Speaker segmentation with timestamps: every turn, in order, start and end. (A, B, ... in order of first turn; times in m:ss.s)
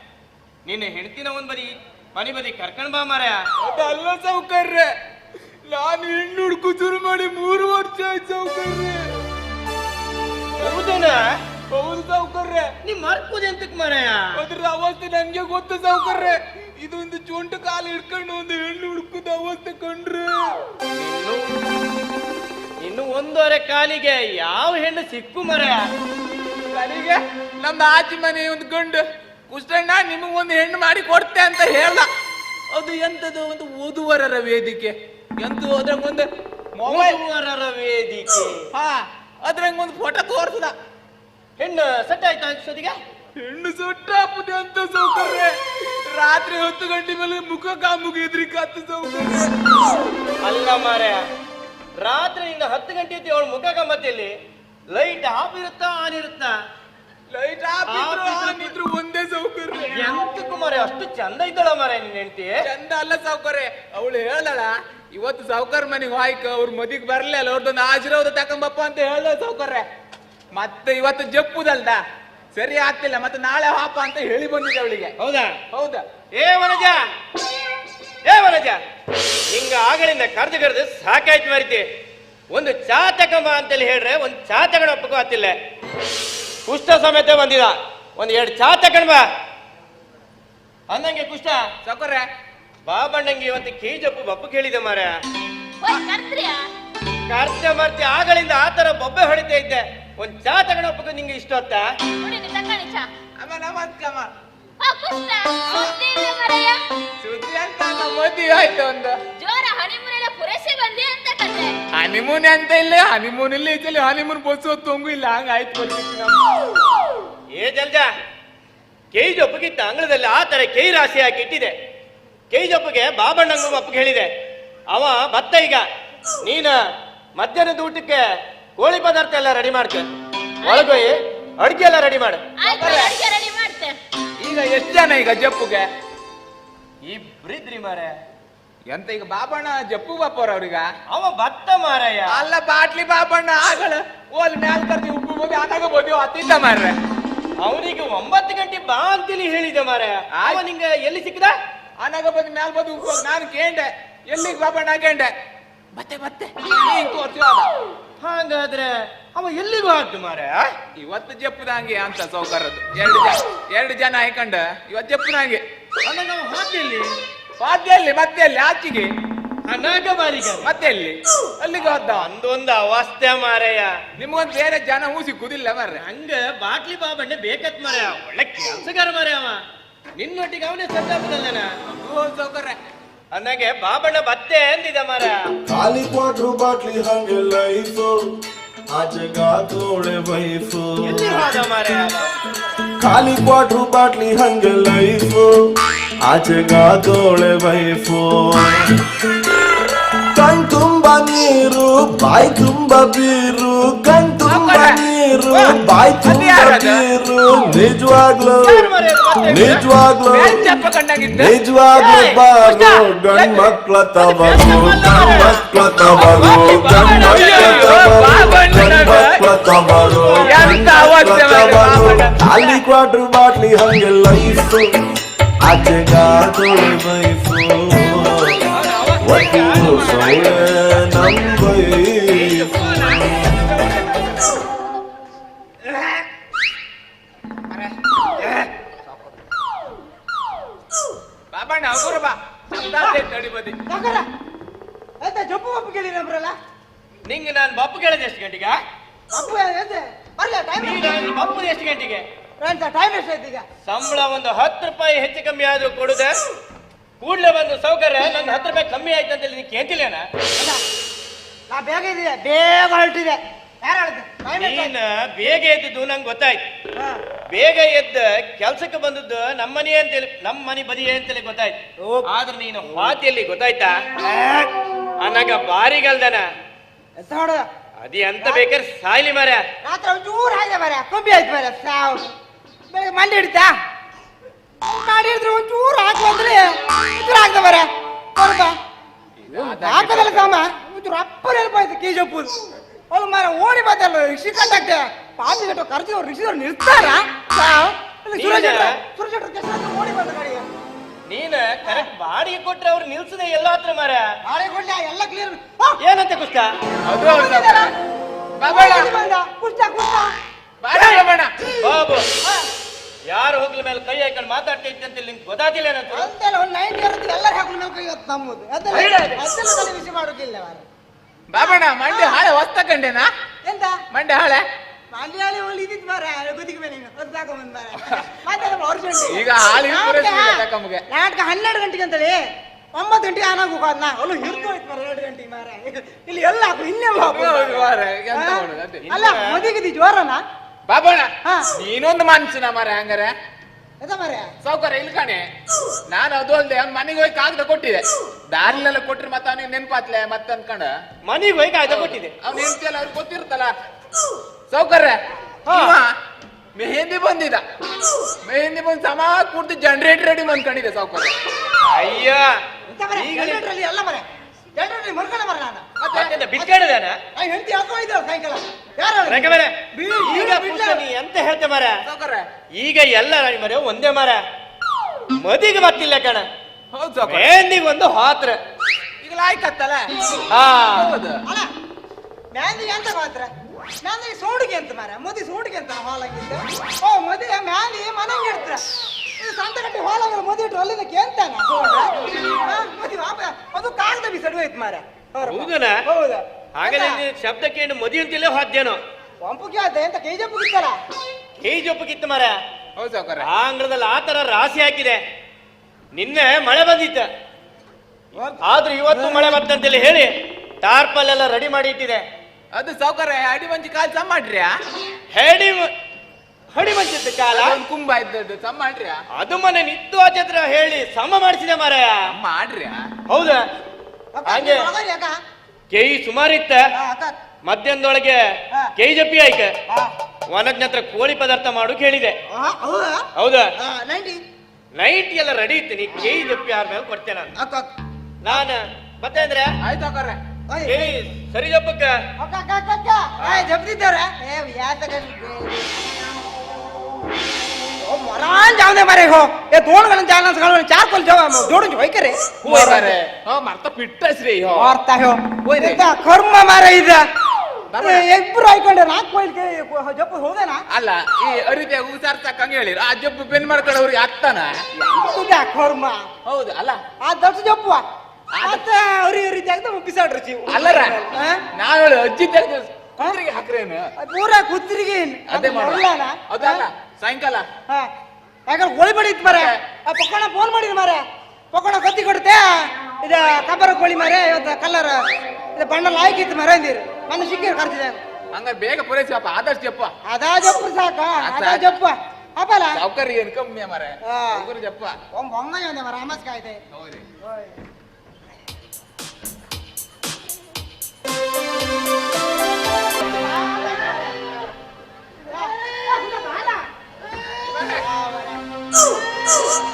0:00.6-0:03.4 A
0:03.6-0:04.9 B
0:05.7-0:09.0 B
0:10.5-0:12.7 B
0:10.6-0:11.3 A
0:12.8-0:14.3 A
0:14.3-0:20.6 B
0:20.9-0:21.4 A
0:22.8-0:25.9 A
0:26.7-0:32.1 B
0:32.7-0:37.2 B
0:36.8-0:38.6 A
0:38.7-0:40.7 B
0:41.6-0:43.0 A
0:43.4-0:49.6 B
0:50.4-0:51.2 A
0:52.0-0:54.3 A
0:54.9-0:56.6 A
0:57.3-1:00.1 B
0:57.9-0:58.7 A
0:59.9-1:02.6 A
1:02.6-1:09.8 B
1:10.5-1:12.0 B
1:12.5-1:15.1 B
1:15.2-1:15.6 A
1:15.7-1:16.0 B
1:16.3-1:17.0 A
1:18.2-1:18.8 A
1:19.5-1:21.8 A
1:22.5-1:25.6 A
1:26.7-1:29.2 A
1:30.9-1:31.6 A
1:31.8-1:32.3 B
1:32.9-1:35.2 A
1:35.8-1:36.6 C
1:37.3-1:41.9 A
1:42.2-1:43.1 C
1:43.4-1:44.3 B
1:44.8-1:46.8 C
1:47.2-1:49.2 B
1:49.4-1:51.8 C
1:51.9-1:56.4 B
1:57.5-1:58.1 A
1:59.1-2:01.7 A
2:02.5-2:04.3 A
2:04.9-2:05.8 A
2:06.4-2:06.8 A
2:07.4-2:08.2 A
2:08.8-2:10.1 A
2:10.6-2:12.5 A
2:10.6-2:11.0 C
2:12.6-2:14.0 C
2:12.6-2:13.1 B
2:14.4-2:15.8 B
2:17.0-2:18.1 A
2:18.9-2:20.9 B
2:21.1-2:22.4 A
2:22.3-2:27.0 B
2:27.6-2:31.5 A
2:30.4-2:30.6 B
2:32.0-2:35.3 B
2:35.9-2:37.7 B
2:38.2-2:40.7 A
2:41.0-2:45.6 B
2:46.0-2:47.1 A
2:47.6-2:49.1 B
2:49.7-2:50.8 A
2:50.6-2:52.3 B
2:51.8-2:54.0 A
2:54.2-2:56.0 B
2:55.9-2:59.6 A
3:00.2-3:01.7 A
3:01.9-3:02.8 B
3:03.3-3:05.4 A
3:05.7-3:08.2 D
3:08.9-3:11.4 D
3:11.0-3:12.3 A
3:13.0-3:15.5 D
3:16.2-3:18.8 D
3:20.3-3:28.9 D
3:24.4-3:25.0 B
3:25.5-3:27.0 B
3:28.6-3:29.8 A
3:29.4-3:30.7 D
3:30.3-3:31.5 B
3:31.4-3:44.9 D
3:31.9-3:33.0 A
3:33.3-3:33.7 B
3:34.2-3:38.3 A
3:36.4-3:39.4 B
3:39.9-3:42.8 A
3:40.4-3:42.2 B
3:45.6-3:48.6 D
3:48.7-3:51.6 A
3:49.2-3:52.8 D
3:49.3-3:50.7 B
3:52.3-3:53.3 A
3:53.6-3:54.6 B
3:55.9-3:56.2 A
3:58.4-3:58.7 A
4:01.5-4:03.8 B
4:03.9-4:04.2 E
4:05.2-4:06.6 E
4:07.3-4:08.8 A
4:09.3-4:11.2 E
4:10.8-4:12.2 A
4:12.6-4:13.6 E
4:13.8-4:16.4 A
4:17.2-4:20.3 A
4:21.7-4:24.9 E
4:24.6-4:26.6 A
4:27.5-4:36.5 A
4:37.2-4:37.7 E
4:38.0-4:39.6 A
4:38.4-4:38.7 E
4:39.8-4:42.3 E
4:42.9-4:43.7 E
4:44.8-4:48.7 E
4:49.4-4:50.5 B
4:49.5-4:52.5 E
4:53.1-5:00.6 E
4:58.4-4:59.0 A
5:01.3-5:04.3 A
5:04.4-5:06.0 E
5:06.0-5:06.7 A
5:07.1-5:07.9 B
5:07.2-5:07.9 E
5:08.6-5:09.1 B
5:08.7-5:10.3 E
5:10.8-5:11.5 B
5:10.9-5:11.7 E
5:11.8-5:12.3 A
5:13.3-5:16.3 A
5:16.1-5:20.8 E
5:18.9-5:19.4 A
5:21.5-5:23.3 B
5:21.6-5:22.4 E
5:23.6-5:24.0 E
5:24.1-5:24.6 B
5:25.1-5:32.4 E
5:29.3-5:31.0 B
5:32.9-5:40.4 E
5:37.3-5:39.0 B
5:39.0-5:39.7 A
5:40.9-5:43.3 B
5:41.4-5:41.7 E
5:44.0-5:44.5 E
5:44.6-5:45.4 B
5:46.1-5:51.0 B
5:51.2-5:52.3 A
5:51.9-5:53.7 B
5:54.7-5:56.1 B
5:55.6-5:56.0 E
5:56.8-5:57.6 B
5:58.4-6:01.3 B
6:01.8-6:02.6 A
6:02.9-6:04.2 E
6:03.1-6:03.6 A
6:04.8-6:05.8 E
6:06.0-6:06.3 B
6:06.1-6:07.2 A
6:07.4-6:11.0 E
6:09.3-6:12.0 A
6:12.0-6:12.5 B
6:12.8-6:14.4 A
6:15.3-6:16.5 A
6:16.9-6:17.5 B
6:17.2-6:18.6 A
6:19.2-6:20.1 B
6:20.5-6:21.2 A
6:20.9-6:21.4 B
6:22.5-6:23.5 E
6:24.0-6:28.8 E
6:29.4-6:37.2 E
6:35.4-6:36.0 A
6:36.8-6:39.0 A
6:39.4-6:41.0 E
6:41.6-6:42.6 A
6:43.0-6:43.5 B
6:43.4-6:45.2 A
6:46.1-6:47.3 A
6:48.4-6:48.6 E
6:48.6-6:52.2 A
6:49.1-6:49.5 E
6:52.7-6:54.7 B
6:55.3-6:55.9 A
6:56.7-6:57.8 A
6:57.5-6:59.2 B
6:59.4-7:02.2 A
7:02.3-7:03.1 B
7:03.3-7:03.6 A
7:04.3-7:05.3 E
7:04.4-7:04.9 A
7:05.9-7:06.8 A
7:06.9-7:07.4 E
7:07.6-7:08.4 A
7:09.0-7:09.7 A
7:10.5-7:12.4 A
7:12.5-7:14.4 E
7:13.4-7:13.7 A
7:15.0-7:17.5 A
7:17.6-7:17.9 E
7:18.4-7:19.8 A
7:19.8-7:20.4 B
7:20.7-7:21.1 E
7:20.8-7:22.2 A
7:22.4-7:26.0 E
7:23.4-7:23.7 A
7:28.0-7:33.2 E
7:32.6-7:34.9 B
7:34.7-7:37.2 E
7:35.6-7:36.0 B
7:37.9-7:38.2 B
7:38.0-7:40.8 E
7:40.9-7:44.8 B
7:45.0-7:46.2 E
7:46.4-7:47.0 B
7:47.2-7:48.0 E
7:48.5-7:48.8 B
7:48.6-7:51.6 E
7:50.7-7:51.1 B
7:51.7-7:54.1 B
7:54.2-7:56.8 E
7:55.5-7:57.7 B
7:58.7-8:05.2 E
7:59.5-7:59.8 B
8:05.8-8:08.2 E
8:08.5-8:10.1 B
8:10.3-8:13.0 E
8:11.4-8:12.0 B
8:12.9-8:15.2 B
8:14.2-8:14.7 E
8:15.3-8:16.8 E
8:16.9-8:17.2 B
8:17.4-8:17.7 E
8:23.0-8:24.6 E
8:25.4-8:26.8 E
8:27.6-8:28.0 B
8:27.8-8:28.6 E